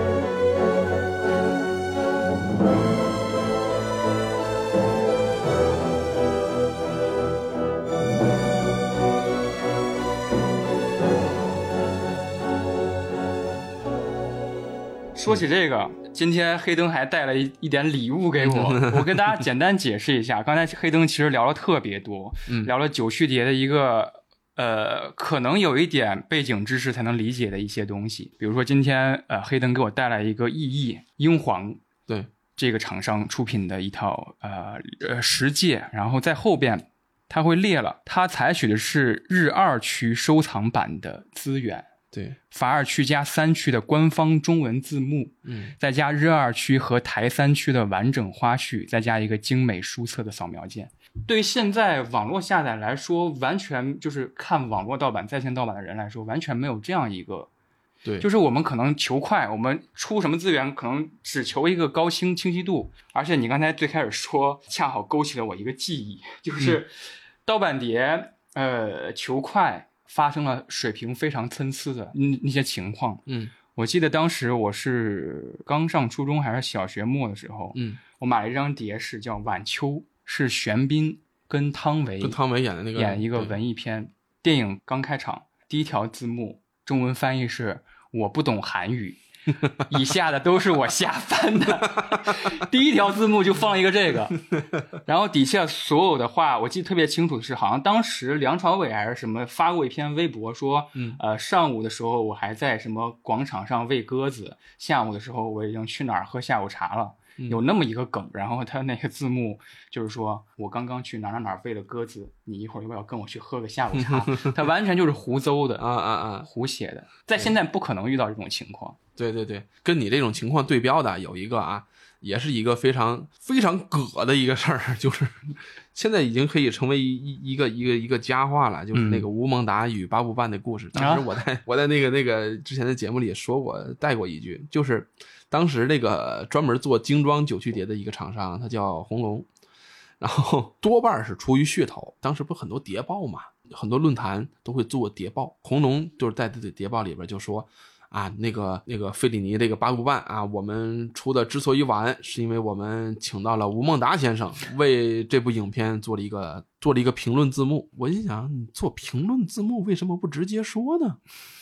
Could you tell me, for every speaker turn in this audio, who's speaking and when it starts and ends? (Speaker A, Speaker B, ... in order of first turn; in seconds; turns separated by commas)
Speaker A: 15.1-31.8, Speaker B: 18.4-19.4, Speaker B: 22.4-22.7, Speaker A: 32.5-41.9, Speaker B: 42.1-42.4, Speaker A: 42.5-57.5, Speaker B: 45.4-45.7, Speaker A: 58.2-73.2, Speaker B: 73.3-73.5, Speaker A: 73.7-82.4, Speaker B: 77.7-78.0, Speaker B: 82.2-83.5, Speaker A: 82.9-89.2, Speaker A: 89.8-94.4, Speaker A: 95.0-115.8, Speaker B: 113.9-114.5, Speaker B: 115.8-116.5, Speaker A: 116.4-119.0, Speaker B: 119.2-139.5, Speaker A: 128.9-129.2, Speaker A: 130.9-131.3, Speaker B: 140.2-161.2